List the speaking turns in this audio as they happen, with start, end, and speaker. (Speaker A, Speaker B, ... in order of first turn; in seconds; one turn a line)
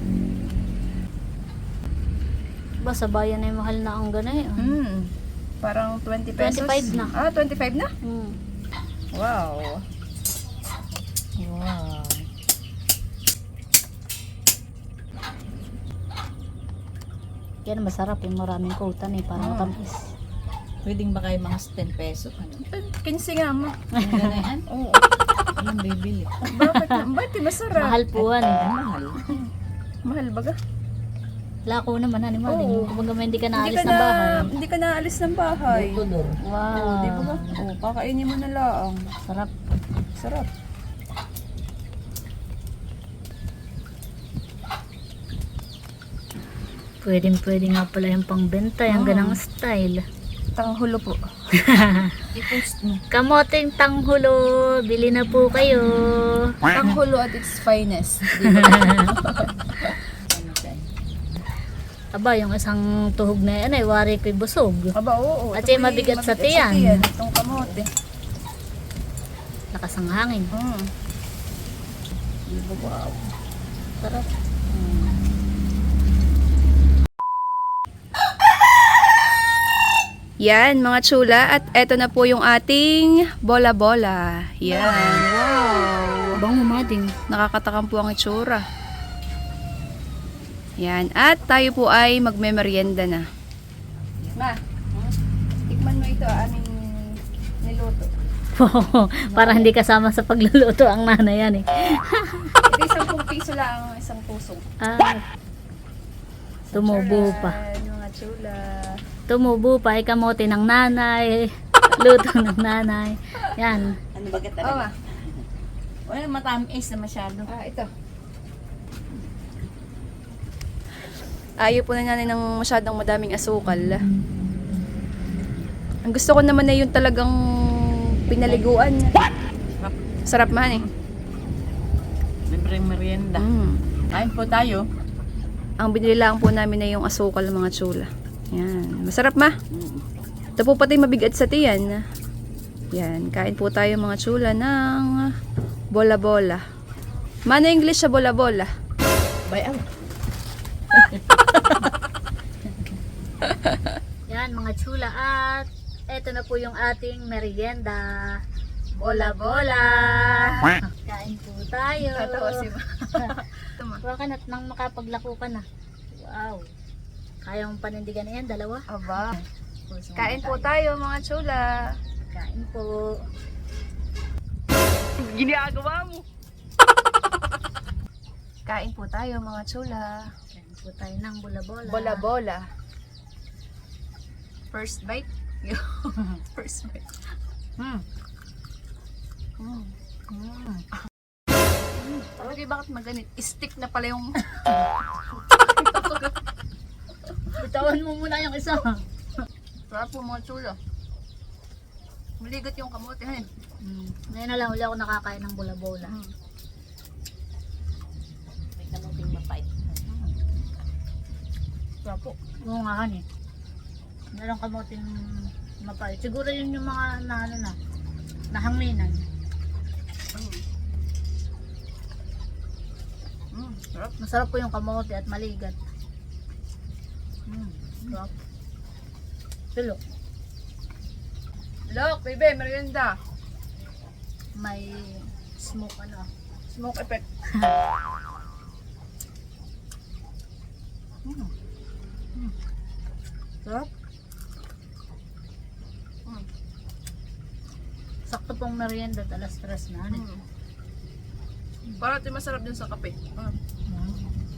Speaker A: 2.8-4.8
Speaker B: 4.6-5.1
Speaker B: 5.6-7.9
Speaker A: 6.4-7.1
Speaker A: 8.0-8.4
Speaker B: 9.1-9.8
Speaker A: 11.4-12.2
Speaker A: 17.6-20.1
Speaker B: 19.4-19.7
Speaker C: 20.8-22.6
Speaker B: 22.7-23.9
Speaker C: 24.0-24.6
Speaker A: 24.0-24.4
Speaker B: 24.7-25.0
Speaker C: 25.6-26.5
Speaker B: 26.5-28.0
Speaker A: 26.7-27.0
Speaker A: 27.7-28.6
Speaker C: 28.1-29.4
Speaker B: 30.1-30.6
Speaker A: 31.7-34.5
Speaker B: 32.5-32.9
Speaker B: 33.5-36.0
Speaker C: 35.7-36.4
Speaker A: 36.4-37.6
Speaker B: 36.7-39.0
Speaker A: 39.2-39.5
Speaker B: 40.2-40.5
Speaker A: 47.0-50.0
Speaker B: 48.9-49.4
Speaker B: 50.6-51.2
Speaker A: 51.5-52.2
Speaker B: 52.3-53.0
Speaker A: 53.1-56.9
Speaker B: 56.7-59.9
Speaker A: 58.4-59.1
Speaker C: 60.1-60.9
Speaker A: 62.1-64.9
Speaker B: 64.9-67.9
Speaker A: 65.5-67.1
Speaker A: 69.7-70.5
Speaker B: 70.5-70.9
Speaker A: 72.5-73.2
Speaker A: 74.0-75.1
Speaker B: 80.4-86.4
Speaker A: 84.8-85.2
Speaker A: 86.4-87.1
Speaker B: 87.3-88.6
Speaker B: 90.8-93.2
Speaker B: 94.3-95.1
Speaker B: 95.7-98.1
Speaker A: 98.5-102.6
Speaker B: 99.3-99.7
Speaker B: 102.6-104.6
Speaker A: 104.8-105.2
Speaker B: 106.7-109.0
Speaker A: 106.7-107.6
Speaker A: 109.3-114.0
Speaker C: 114.1-115.5
Speaker B: 114.6-114.9
Speaker C: 116.0-117.5
Speaker B: 117.5-117.9
Speaker B: 121.6-124.0
Speaker B: 126.1-129.1
Speaker C: 129.2-130.1
Speaker B: 130.3-130.9
Speaker C: 132.5-133.5
Speaker B: 133.3-133.8
Speaker C: 134.1-134.8
Speaker B: 135.8-139.5
Speaker C: 139.7-140.0
Speaker B: 140.6-142.0
Speaker B: 142.9-145.3
Speaker B: 145.9-146.6
Speaker B: 147.5-148.7
Speaker C: 149.5-149.8
Speaker C: 150.9-151.8
Speaker A: 154.3-158.4
Speaker A: 159.0-163.3
Speaker B: 159.0-160.7
Speaker B: 162.1-164.0
Speaker A: 164.0-166.7
Speaker A: 167.4-170.7
Speaker B: 168.9-169.4
Speaker B: 170.2-171.9
Speaker A: 172.3-173.2
Speaker B: 175.2-176.2
Speaker B: 178.7-180.3
Speaker A: 180.5-182.2
Speaker B: 181.8-182.6
Speaker B: 184.7-187.1
Speaker A: 187.8-188.0
Speaker B: 189.6-189.9
Speaker A: 190.3-190.8
Speaker A: 192.0-192.3
Speaker B: 192.3-194.4
Speaker A: 194.4-194.8
Speaker B: 195.3-196.3
Speaker A: 197.5-199.0
Speaker B: 199.9-200.8
Speaker B: 202.4-203.5
Speaker A: 203.8-206.1
Speaker B: 206.0-206.3
Speaker C: 208.8-210.1
Speaker A: 212.1-213.2
Speaker A: 214.3-217.8
Speaker A: 218.5-219.2
Speaker B: 220.3-220.6
Speaker B: 223.5-224.1
Speaker A: 224.2-225.8
Speaker A: 227.5-228.3
Speaker A: 229.7-230.0
Speaker B: 231.9-233.1
Speaker A: 234.6-236.3
Speaker B: 236.7-237.2
Speaker A: 237.5-237.8
Speaker A: 241.2-241.5
Speaker A: 248.3-250.2
Speaker B: 250.1-250.4
Speaker B: 252.0-253.5
Speaker A: 253.9-254.2